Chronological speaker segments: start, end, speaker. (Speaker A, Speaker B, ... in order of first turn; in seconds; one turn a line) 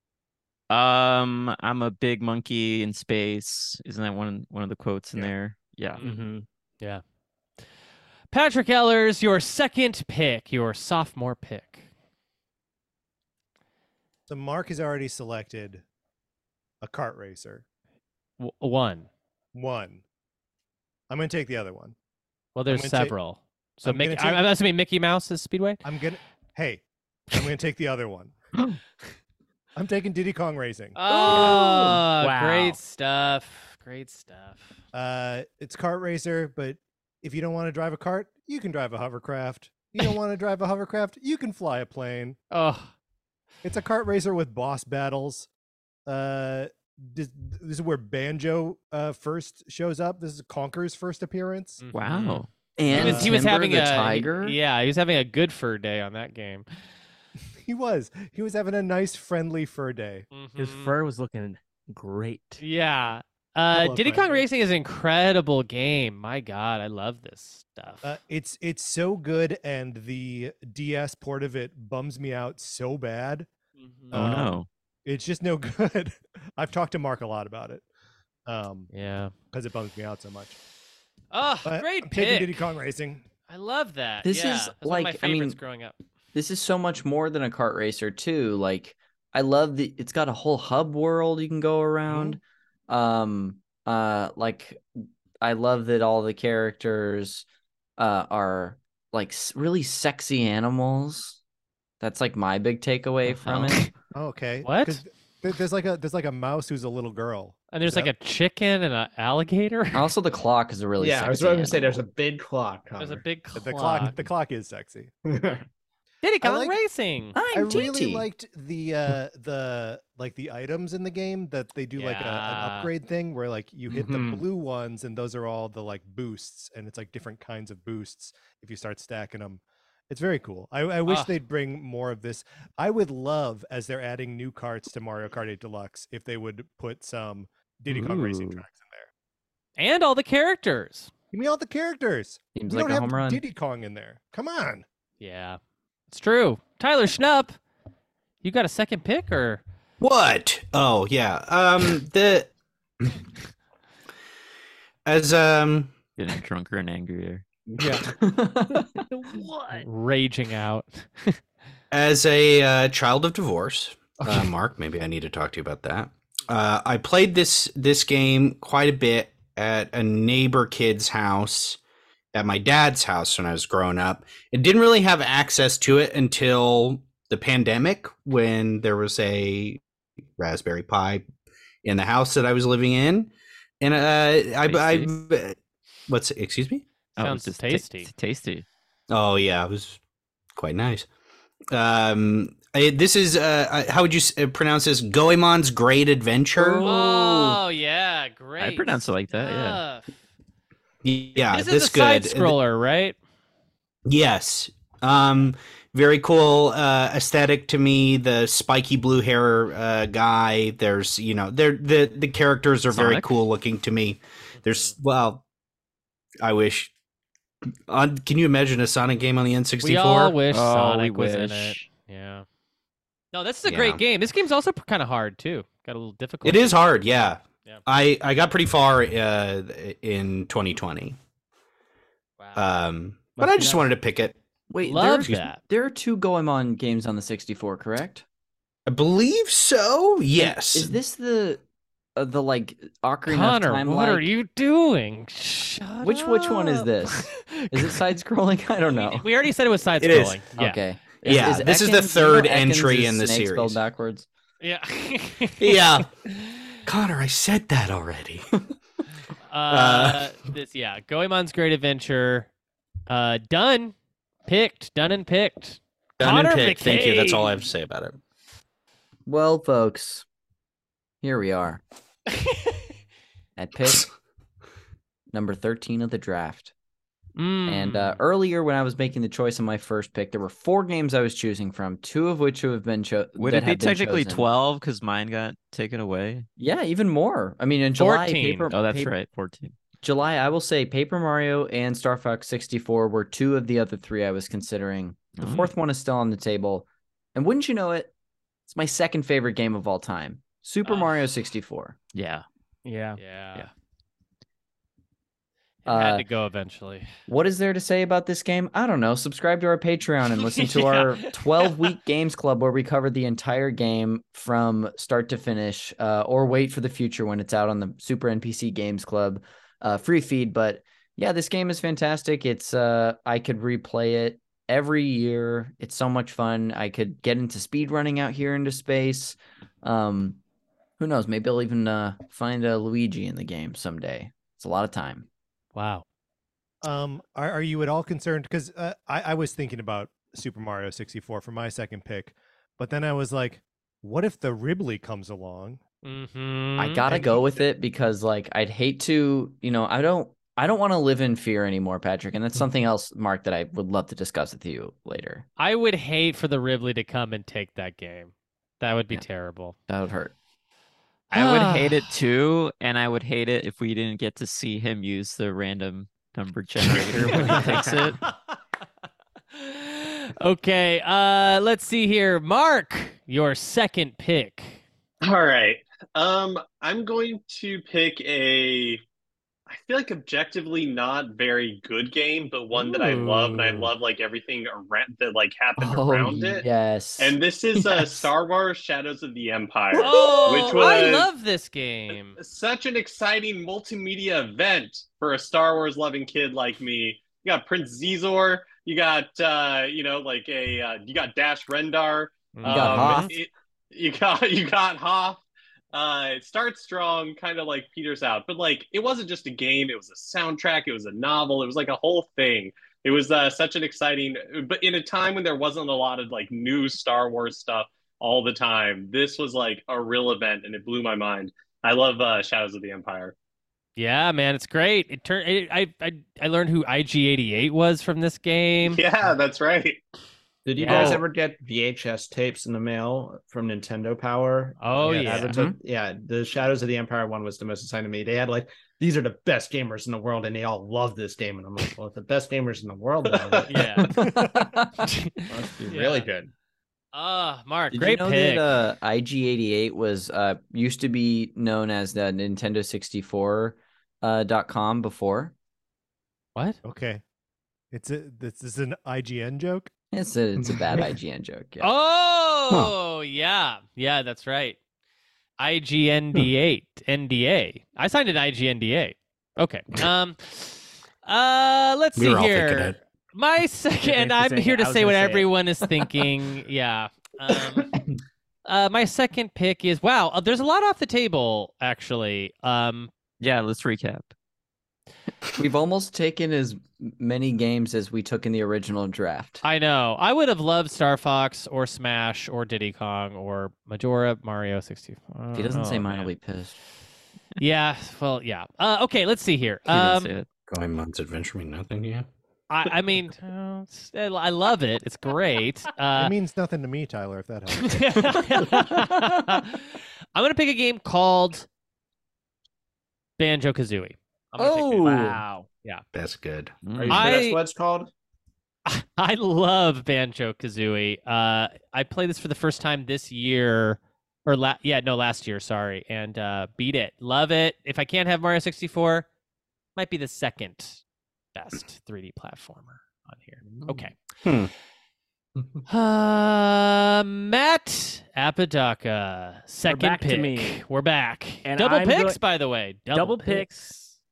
Speaker A: 0.7-6.0
Speaker B: 5.9-6.3
Speaker C: 6.0-6.5
Speaker B: 8.3-11.9
Speaker D: 14.3-15.8
Speaker D: 16.8-17.6
Speaker B: 18.4-19.1
Speaker D: 19.5-20.0
Speaker D: 21.1-21.9
Speaker B: 22.6-25.8
Speaker D: 22.7-23.2
Speaker D: 23.9-24.5
Speaker D: 25.8-28.3
Speaker D: 29.8-31.0
Speaker B: 31.0-34.8
Speaker C: 31.1-32.8
Speaker D: 34.9-42.4
Speaker B: 42.5-42.9
Speaker D: 43.6-45.5
Speaker D: 46.1-51.8
Speaker B: 51.8-56.6
Speaker A: 51.9-52.5
Speaker E: 52.8-54.6
Speaker D: 52.9-53.4
Speaker D: 57.6-60.3
Speaker B: 60.3-60.9
Speaker C: 60.6-62.6
Speaker B: 62.6-68.0
Speaker D: 63.7-64.4
Speaker D: 68.0-73.5
Speaker B: 73.8-74.4
Speaker D: 74.1-77.9
Speaker A: 74.1-74.7
Speaker D: 78.5-78.9
Speaker B: 78.9-79.3
Speaker D: 79.5-80.6
Speaker B: 81.3-82.6
Speaker D: 81.7-83.2
Speaker B: 83.5-86.0
Speaker E: 84.2-85.6
Speaker E: 86.3-94.8
Speaker D: 92.1-92.4
Speaker E: 95.4-97.5
Speaker E: 98.0-101.4
Speaker E: 102.0-103.9
Speaker A: 103.3-103.8
Speaker D: 104.1-108.1
Speaker B: 104.6-105.0
Speaker B: 107.7-110.1
Speaker E: 109.9-112.0
Speaker F: 111.0-113.2
Speaker B: 113.0-114.2
Speaker D: 113.5-115.1
Speaker F: 115.3-115.7
Speaker B: 116.2-117.3
Speaker D: 116.4-116.8
Speaker E: 117.3-118.3
Speaker D: 117.5-139.1
Speaker B: 122.0-122.9
Speaker F: 123.9-124.5
Speaker B: 131.1-131.3
Speaker E: 137.9-138.6
Speaker B: 139.8-141.1
Speaker D: 141.3-144.8
Speaker E: 142.6-143.4
Speaker B: 145.2-145.6
Speaker B: 146.1-147.6
Speaker B: 148.4-149.6
Speaker G: 150.0-152.5
Speaker G: 155.1-155.9
Speaker A: 156.2-157.4
Speaker E: 158.2-158.9
Speaker C: 159.1-159.9
Speaker B: 159.7-161.4
Speaker G: 161.9-171.8
Speaker G: 172.3-179.8
Speaker G: 180.4-181.2
Speaker G: 181.8-185.6
Speaker A: 184.7-185.1
Speaker G: 186.1-186.8
Speaker B: 187.2-188.1
Speaker A: 187.2-188.7
Speaker G: 189.1-190.0
Speaker G: 190.6-191.1
Speaker G: 191.7-196.8
Speaker E: 196.6-197.6
Speaker B: 196.8-200.1
Speaker A: 198.6-199.8
Speaker G: 201.0-202.6
Speaker B: 201.5-203.2
Speaker G: 204.1-215.4
Speaker A: 212.9-213.3
Speaker B: 214.6-214.9
Speaker G: 216.4-216.9
Speaker G: 217.9-220.4
Speaker B: 219.8-222.4
Speaker A: 220.5-221.9
Speaker B: 223.3-226.8
Speaker G: 223.7-224.0
Speaker G: 226.4-231.2
Speaker G: 232.6-234.4
Speaker C: 233.4-233.9
Speaker E: 234.7-238.2
Speaker B: 234.8-235.6
Speaker G: 238.9-240.9
Speaker E: 240.4-241.6
Speaker E: 242.2-244.3
Speaker B: 243.3-248.0
Speaker E: 246.0-249.3
Speaker B: 248.9-250.8
Speaker G: 250.0-250.5
Speaker E: 250.5-254.3
Speaker G: 251.2-253.8
Speaker B: 254.6-256.1
Speaker G: 255.6-256.1
Speaker G: 256.9-258.4
Speaker B: 259.5-262.5
Speaker G: 259.7-260.3
Speaker B: 263.1-263.9
Speaker B: 264.5-267.5
Speaker G: 266.2-268.2
Speaker E: 269.3-270.3
Speaker E: 271.2-271.8
Speaker E: 273.6-274.1
Speaker E: 275.3-276.7
Speaker B: 277.4-278.2
Speaker E: 277.7-284.5
Speaker A: 283.4-286.5
Speaker E: 286.6-289.1
Speaker B: 288.0-288.7
Speaker A: 288.7-289.8
Speaker E: 290.0-298.1
Speaker A: 295.4-295.7
Speaker E: 298.7-302.0
Speaker B: 300.9-301.1
Speaker A: 302.1-302.4
Speaker C: 302.9-303.2
Speaker B: 303.2-303.7
Speaker B: 305.9-307.1
Speaker E: 305.9-306.3
Speaker E: 307.3-330.4
Speaker B: 310.4-311.9
Speaker E: 331.0-335.3
Speaker B: 335.8-336.1
Speaker D: 336.8-345.8
Speaker B: 346.0-347.0
Speaker E: 346.8-355.5
Speaker D: 347.1-347.4
Speaker B: 355.6-359.8
Speaker E: 359.9-360.3
Speaker B: 361.3-362.1
Speaker A: 361.3-368.2
Speaker B: 369.6-374.8
Speaker H: 375.2-379.0
Speaker H: 379.7-386.7
Speaker E: 382.7-383.9
Speaker E: 385.8-388.3
Speaker H: 387.2-391.3
Speaker B: 389.9-392.4
Speaker H: 392.4-405.4
Speaker B: 402.6-403.3
Speaker E: 402.7-403.3
Speaker H: 405.9-423.4
Speaker B: 424.0-429.0
Speaker H: 428.8-430.0
Speaker F: 430.6-444.1
Speaker B: 430.8-431.2
Speaker B: 434.8-435.5
Speaker E: 435.5-435.8
Speaker B: 443.7-444.1
Speaker E: 444.2-444.9
Speaker D: 444.2-444.5
Speaker B: 445.0-446.3
Speaker F: 445.5-446.5
Speaker B: 447.1-448.7
Speaker E: 447.9-455.5
Speaker D: 456.8-457.2
Speaker D: 457.9-459.9
Speaker E: 460.1-461.9
Speaker B: 461.8-464.8
Speaker B: 465.6-477.9
Speaker G: 472.2-473.0
Speaker C: 474.0-475.5
Speaker B: 478.7-483.1
Speaker A: 483.4-484.3
Speaker E: 485.6-489.6
Speaker B: 489.6-496.3
Speaker E: 495.5-496.8
Speaker B: 497.6-500.3
Speaker A: 499.9-500.5
Speaker G: 500.7-502.3
Speaker B: 502.7-506.3
Speaker D: 506.1-508.9
Speaker B: 507.9-511.7
Speaker B: 513.4-516.0
Speaker C: 514.6-515.7
Speaker G: 516.1-516.7
Speaker A: 516.8-517.3
Speaker F: 516.9-518.1
Speaker B: 517.1-517.6
Speaker B: 518.9-529.3
Speaker B: 530.0-531.0
Speaker B: 531.5-534.1
Speaker F: 533.6-533.9
Speaker G: 534.4-534.7
Speaker B: 535.9-544.2
Speaker C: 539.9-540.8
Speaker C: 541.6-542.4
Speaker C: 543.1-543.9